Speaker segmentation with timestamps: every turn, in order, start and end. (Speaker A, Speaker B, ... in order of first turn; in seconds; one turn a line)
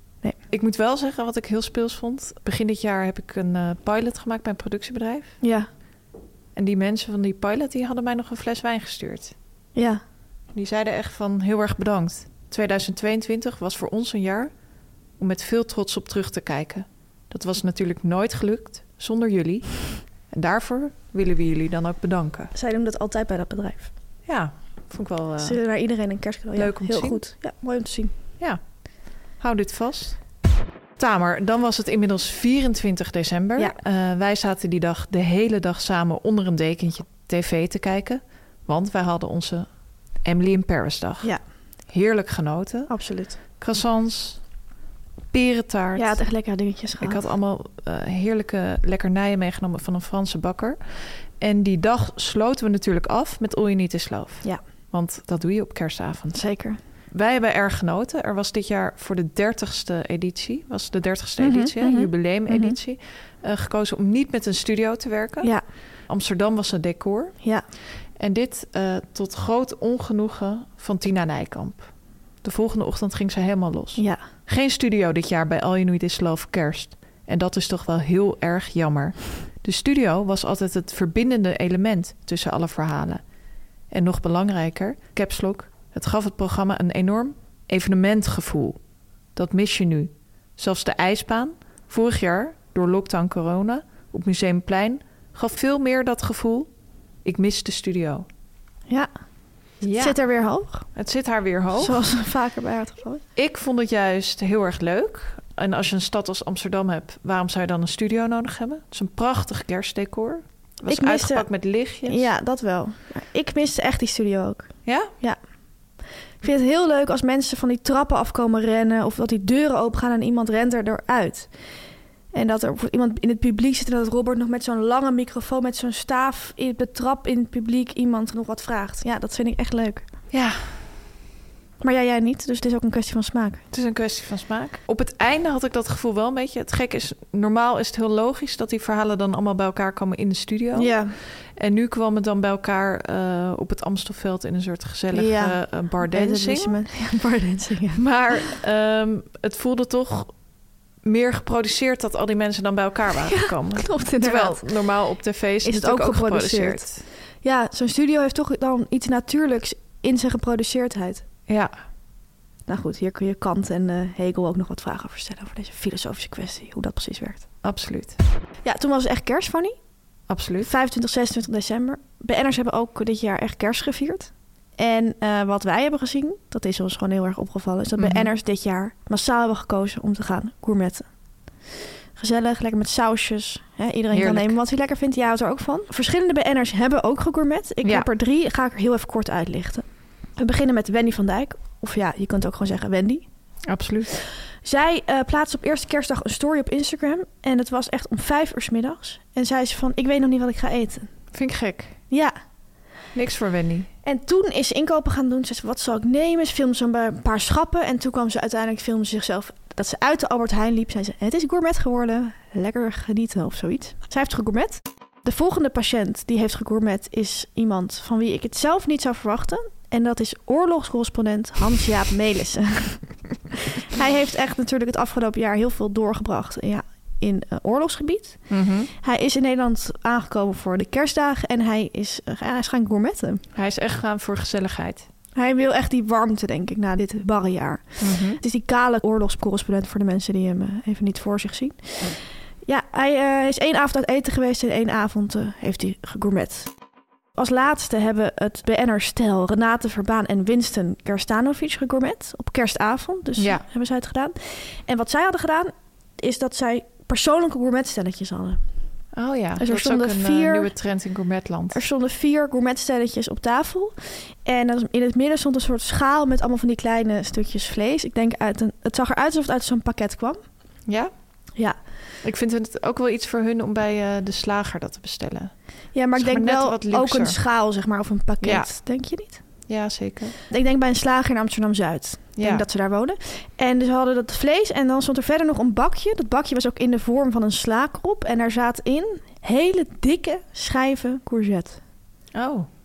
Speaker A: 0.5-5.4
Speaker B: 5.4-5.7
Speaker A: 6.6-9.3
Speaker B: 9.8-10.0
Speaker A: 10.5-14.5
Speaker A: 15.2-22.5
Speaker B: 22.5-23.9
Speaker A: 24.3-25.6
Speaker B: 25.4-28.1
Speaker A: 26.6-27.2
Speaker A: 29.4-30.2
Speaker A: 31.0-39.7
Speaker A: 40.2-41.3
Speaker A: 41.9-42.9
Speaker B: 42.9-43.4
Speaker A: 43.6-44.4
Speaker A: 45.3-46.2
Speaker B: 46.0-47.2
Speaker A: 47.0-56.4
Speaker B: 56.3-56.8
Speaker A: 57.1-65.5
Speaker B: 61.4-62.8
Speaker A: 66.1-67.4
Speaker A: 68.2-71.9
Speaker A: 72.4-83.2
Speaker B: 74.0-74.2
Speaker A: 83.9-88.8
Speaker A: 89.4-96.7
Speaker A: 97.2-98.3
Speaker A: 99.8-100.2
Speaker B: 100.0-100.9
Speaker A: 101.0-102.0
Speaker B: 101.8-103.2
Speaker A: 103.4-112.3
Speaker B: 110.9-111.5
Speaker B: 112.1-115.4
Speaker A: 114.9-115.1
Speaker B: 116.4-121.5
Speaker B: 122.3-130.1
Speaker A: 130.3-130.6
Speaker B: 131.8-133.6
Speaker A: 133.7-141.0
Speaker B: 140.8-141.2
Speaker A: 141.6-146.8
Speaker B: 145.1-148.0
Speaker A: 148.0-150.3
Speaker A: 151.0-157.0
Speaker B: 153.3-154.7
Speaker B: 155.6-156.9
Speaker B: 157.4-161.2
Speaker B: 162.7-167.4
Speaker A: 167.6-168.2
Speaker B: 168.7-169.8
Speaker A: 170.3-170.7
Speaker B: 170.6-181.1
Speaker A: 178.0-178.3
Speaker B: 182.2-189.8
Speaker A: 184.1-184.6
Speaker B: 190.4-193.2
Speaker A: 193.7-194.1
Speaker B: 194.6-201.1
Speaker A: 201.3-202.0
Speaker B: 202.1-202.4
Speaker A: 203.1-203.9
Speaker B: 204.1-223.0
Speaker B: 223.9-228.4
Speaker A: 228.5-228.9
Speaker B: 229.0-233.4
Speaker A: 233.6-235.1
Speaker B: 235.4-246.7
Speaker A: 238.0-238.4
Speaker B: 247.4-258.6
Speaker A: 253.4-253.6
Speaker A: 259.1-261.8
Speaker B: 259.6-260.7
Speaker B: 261.7-270.4
Speaker A: 272.2-275.5
Speaker B: 275.9-279.4
Speaker A: 276.2-277.4
Speaker A: 278.4-278.7
Speaker A: 279.7-280.4
Speaker B: 280.5-291.8
Speaker A: 282.4-282.6
Speaker A: 292.3-292.7